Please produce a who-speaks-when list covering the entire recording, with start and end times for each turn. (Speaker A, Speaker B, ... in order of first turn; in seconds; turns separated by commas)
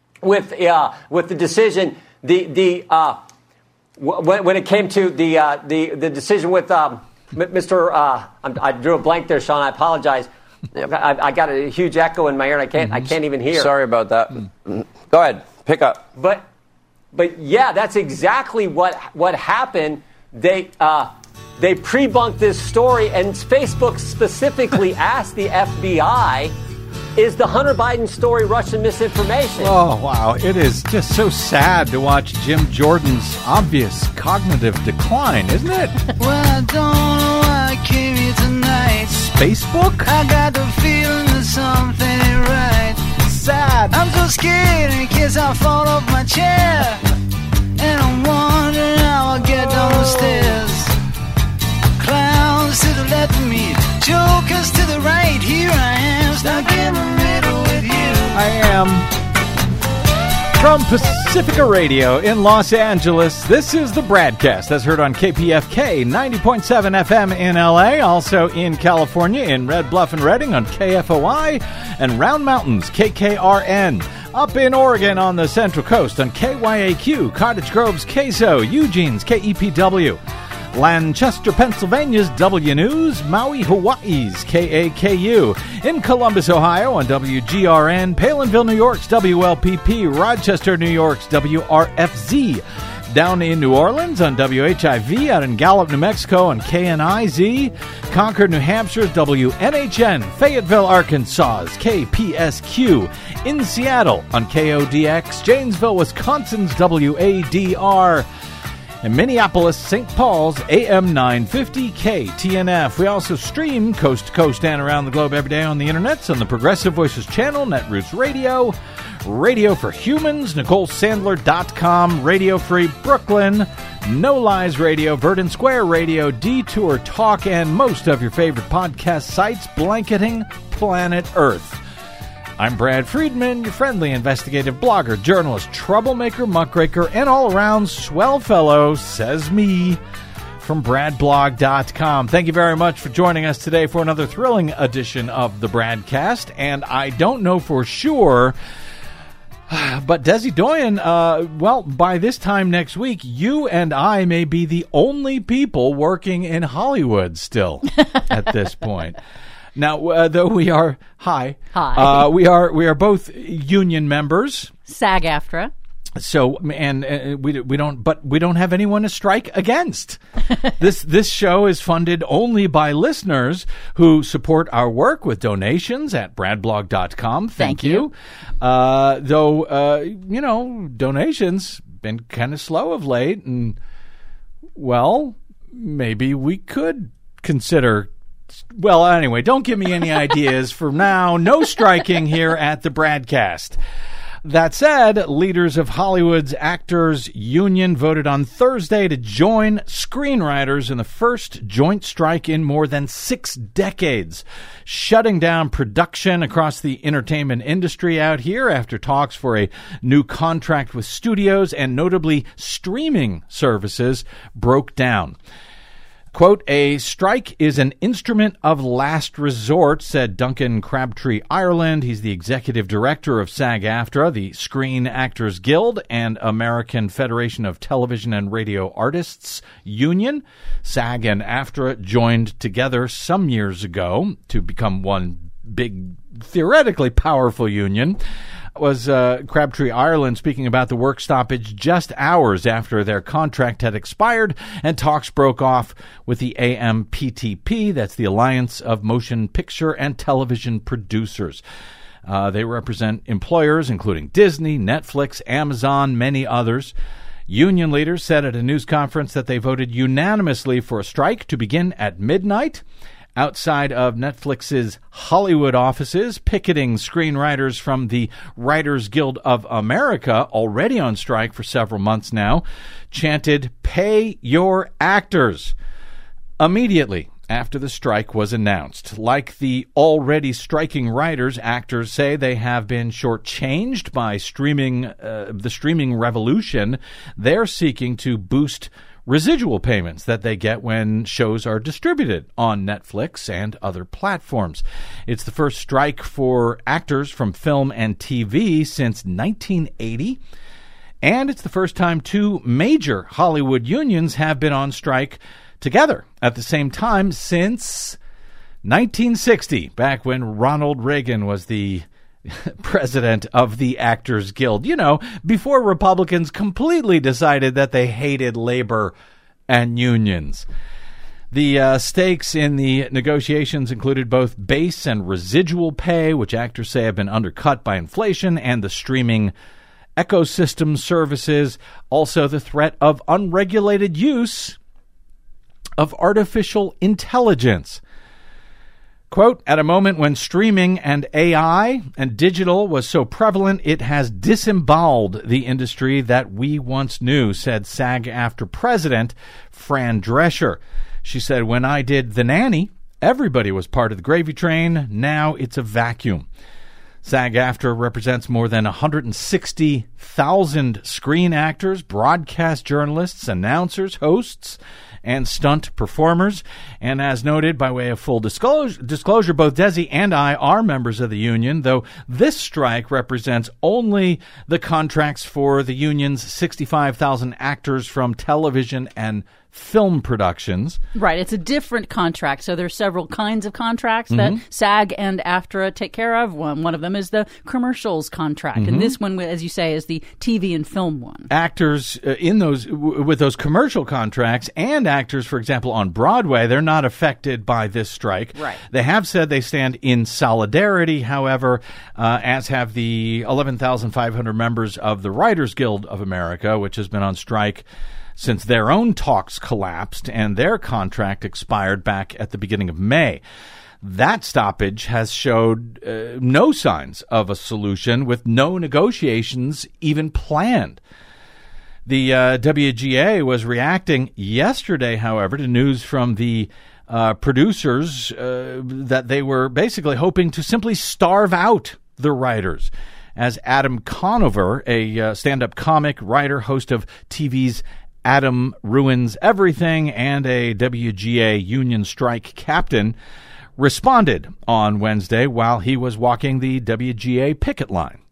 Speaker A: 0.2-3.2, Speaker A: 4.0-10.3, Speaker A: 10.9-13.7, Speaker B: 13.5-16.1, Speaker A: 16.1-16.4, Speaker A: 17.1-26.5, Speaker A: 27.2-29.7, Speaker C: 29.6-36.0, Speaker D: 36.2-39.3, Speaker C: 39.3-40.1, Speaker D: 40.0-43.2, Speaker C: 43.3-43.9, Speaker D: 43.9-47.0, Speaker D: 47.8-50.9, Speaker D: 52.0-58.4, Speaker C: 58.3-59.1, Speaker C: 60.6-80.2, Speaker C: 80.7-108.3, Speaker C: 109.0-131.8, Speaker C: 132.6-140.0, Speaker C: 140.6-148.6, Speaker C: 149.7-159.2, Speaker C: 159.8-164.7, Speaker E: 161.7-162.3, Speaker E: 164.9-165.7, Speaker C: 166.2-170.2, Speaker C: 170.7-183.8, Speaker E: 177.6-178.1, Speaker C: 184.8-193.8, Speaker C: 194.4-215.4, Speaker C: 216.3-238.2, Speaker C: 238.8-251.6, Speaker C: 252.3-256.9, Speaker C: 257.5-262.8, Speaker C: 263.4-275.8, Speaker C: 276.6-300.4, Speaker C: 301.2-308.2, Speaker C: 308.8-319.1, Speaker C: 319.7-320.7, Speaker C: 321.5-329.5, Speaker C: 330.2-334.8, Speaker C: 336.0-338.0, Speaker C: 339.3-356.5, Speaker C: 357.2-381.0, Speaker E: 381.1-391.5, Speaker C: 384.3-384.6, Speaker C: 388.8-389.1, Speaker C: 391.5-413.4, Speaker E: 398.6-398.8, Speaker C: 414.0-421.0, Speaker C: 422.1-443.2, Speaker C: 443.8-448.2